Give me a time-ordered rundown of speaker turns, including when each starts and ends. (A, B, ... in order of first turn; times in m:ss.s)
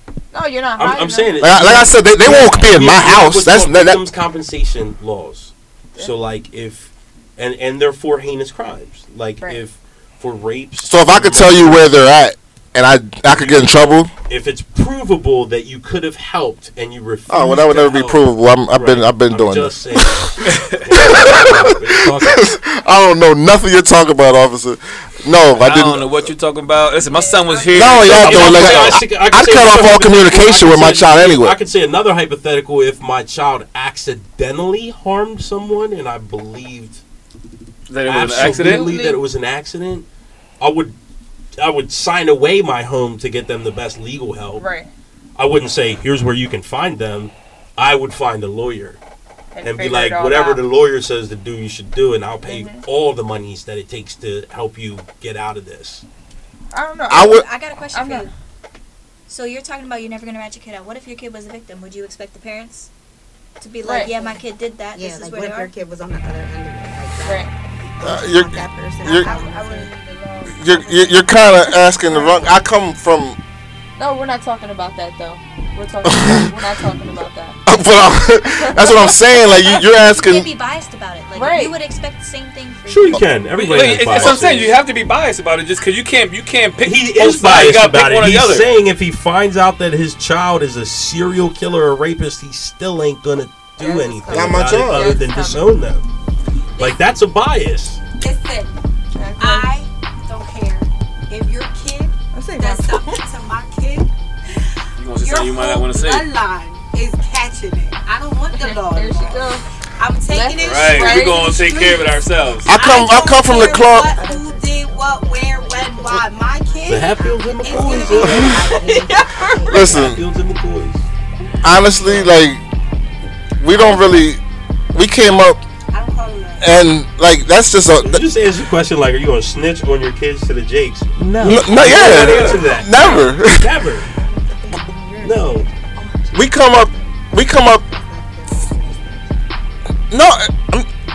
0:00.3-0:01.4 A
0:00.8-0:11.9 B
0:01.4-0:04.0 C
0:10.9-0:14.1 C
0:13.3-0:22.5 B
0:17.3-0:20.3 C
0:20.4-0:20.8 D
0:21.0-0:26.1 C
0:25.6-0:29.0 D
0:27.0-0:28.2 E
0:27.7-0:31.6 C
0:28.0-0:37.0 B
0:37.9-0:38.9 D
0:38.0-0:40.0 B
0:38.5-0:39.2 A
0:40.6-0:40.9 B
0:41.6-0:44.6 B
0:44.6-0:44.9 A
0:45.4-0:49.0 B
0:49.5-0:50.6 A
0:49.6-0:56.0 B
0:52.4-0:52.8 A
0:56.7-0:58.3 A
0:57.1-0:57.4 C
0:57.1-0:58.3 F
0:59.3-1:02.9 F
1:03.6-1:05.7 F
1:03.8-1:04.1 A
1:04.9-1:09.9 G
1:08.0-1:09.3 C
1:09.0-1:11.4 E
1:10.5-1:13.4 C
1:14.0-1:17.6 A
1:16.0-1:16.5 C
1:17.6-1:20.5 C
1:18.6-1:19.1 A
1:19.7-1:23.3 F
1:21.3-1:21.7 A
1:22.9-1:24.8 B
1:23.5-1:28.7 D
1:26.8-1:36.0 B
1:33.8-1:34.4 E
1:34.3-1:34.6 G
1:34.3-1:35.2 C
1:34.8-1:35.6 A
1:36.8-1:38.0 B
1:38.2-1:38.8 E
1:39.1-1:39.7 A
1:39.4-1:44.6 E
1:42.3-1:43.2 A
1:45.0-1:46.3 D
1:45.2-1:49.4 E
1:48.5-1:49.6 A
1:49.1-1:49.4 G
1:50.0-1:52.2 E
1:50.3-1:52.0 A
1:50.6-1:52.7 D
1:50.7-1:51.1 G
1:52.6-1:54.2 C
1:52.7-1:59.3 E
1:52.9-2:00.1 G
1:56.9-1:58.7 B
1:58.7-1:59.6 A
1:59.7-2:00.2 C
1:59.7-2:01.0 B
2:01.6-2:02.6 C
2:01.8-2:02.3 G
2:03.6-2:04.4 C
2:04.9-2:05.6 C
2:05.9-2:06.7 E
2:06.6-2:08.3 C
2:08.0-2:14.1 B
2:11.4-2:13.7 C
2:12.0-2:12.7 D
2:12.6-2:13.4 G
2:14.2-2:19.3 G
2:15.2-2:15.7 B
2:16.3-2:17.8 C
2:20.1-2:20.9 C